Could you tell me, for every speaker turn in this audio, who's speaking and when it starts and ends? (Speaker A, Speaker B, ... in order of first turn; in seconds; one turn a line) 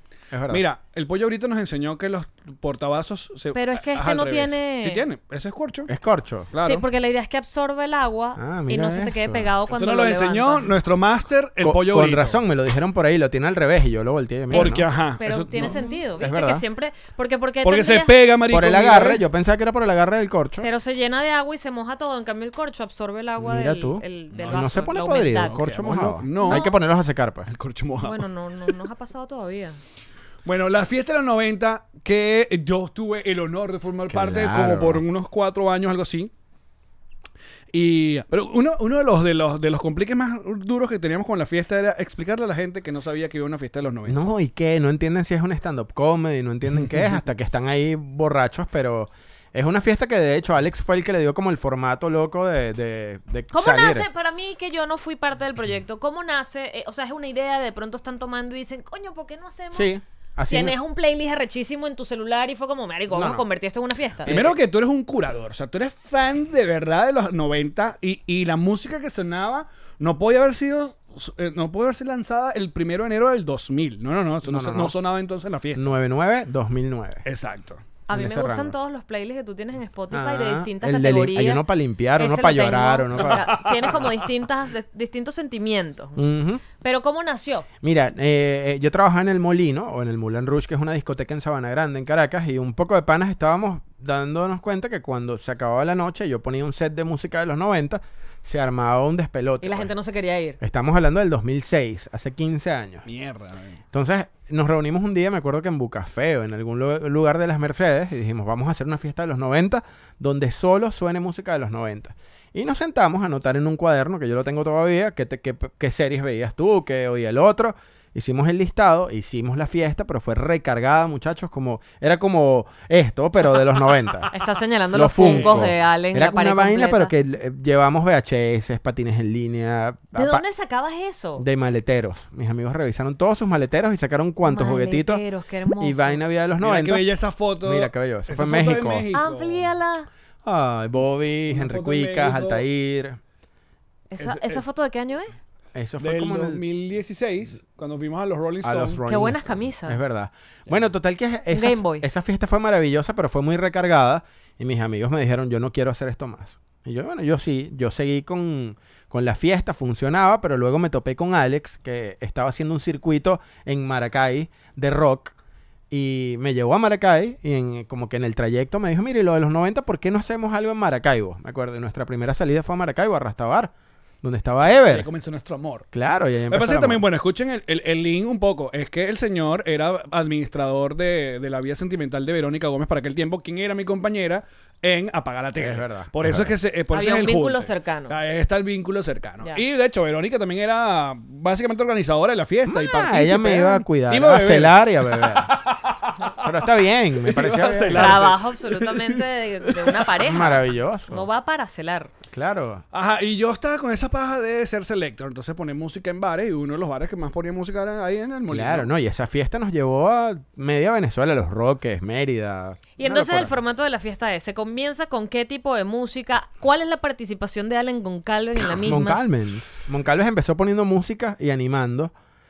Speaker A: 0.3-0.6
Speaker B: 0.5-5.9
Speaker C: 3.5-5.0
Speaker A: 5.9-6.5
Speaker B: 6.5-6.8
Speaker C: 6.6-10.7
Speaker A: 8.4-9.5
Speaker B: 9.7-12.4
Speaker A: 11.6-14.9
Speaker C: 14.5-18.1
Speaker B: 14.5-15.9
Speaker A: 15.6-16.6
Speaker B: 17.6-19.2
Speaker A: 18.5-20.7
Speaker C: 20.6-25.6
Speaker A: 23.4-27.5
Speaker B: 24.3-26.7
Speaker C: 26.4-26.7
Speaker B: 27.5-28.3
Speaker C: 28.0-29.8
Speaker B: 30.4-36.3
Speaker A: 34.1-35.0
Speaker B: 37.7-44.3
Speaker A: 44.1-54.0
Speaker C: 53.5-59.9
Speaker A: 59.7-60.8
Speaker C: 60.5-64.3
Speaker A: 63.1-63.4
Speaker A: 64.2-64.6
Speaker B: 64.3-75.9
Speaker A: 74.4-75.0
Speaker A: 75.7-77.2
Speaker B: 77.2-77.8
Speaker C: 78.1-81.6
Speaker A: 78.1-78.7
Speaker A: 80.1-83.9
Speaker C: 82.2-86.2
Speaker B: 83.2-84.1
Speaker A: 86.2-86.6
Speaker C: 86.7-87.7
Speaker A: 87.8-99.9
Speaker C: 99.6-100.6
Speaker A: 100.6-103.0
Speaker B: 103.0-103.8
Speaker A: 103.9-124.3
Speaker C: 124.3-127.1
Speaker A: 124.9-130.4
Speaker B: 125.2-125.6
Speaker C: 130.1-131.4
Speaker A: 131.4-135.2
Speaker C: 134.4-136.2
Speaker A: 135.8-137.1
Speaker B: 136.6-139.7
Speaker A: 137.6-139.1
Speaker C: 139.1-140.1
Speaker A: 140.4-143.2
Speaker B: 141.5-142.6
Speaker C: 144.1-145.3
Speaker B: 144.2-144.6
Speaker A: 145.7-146.6
Speaker B: 146.0-149.0
Speaker A: 148.6-165.3
Speaker C: 149.1-150.1
Speaker C: 151.5-152.1
Speaker A: 165.9-175.1
Speaker B: 174.7-175.9
Speaker A: 175.9-177.0
Speaker B: 176.5-196.7
Speaker A: 185.6-186.5
Speaker C: 186.9-188.1
Speaker A: 192.7-195.5
Speaker A: 196.4-198.3
Speaker B: 197.2-200.1
Speaker C: 197.9-202.1
Speaker A: 200.2-201.2
Speaker A: 202.3-202.8
Speaker B: 202.9-208.9
Speaker A: 208.5-213.6
Speaker C: 213.0-219.2
Speaker A: 218.8-222.1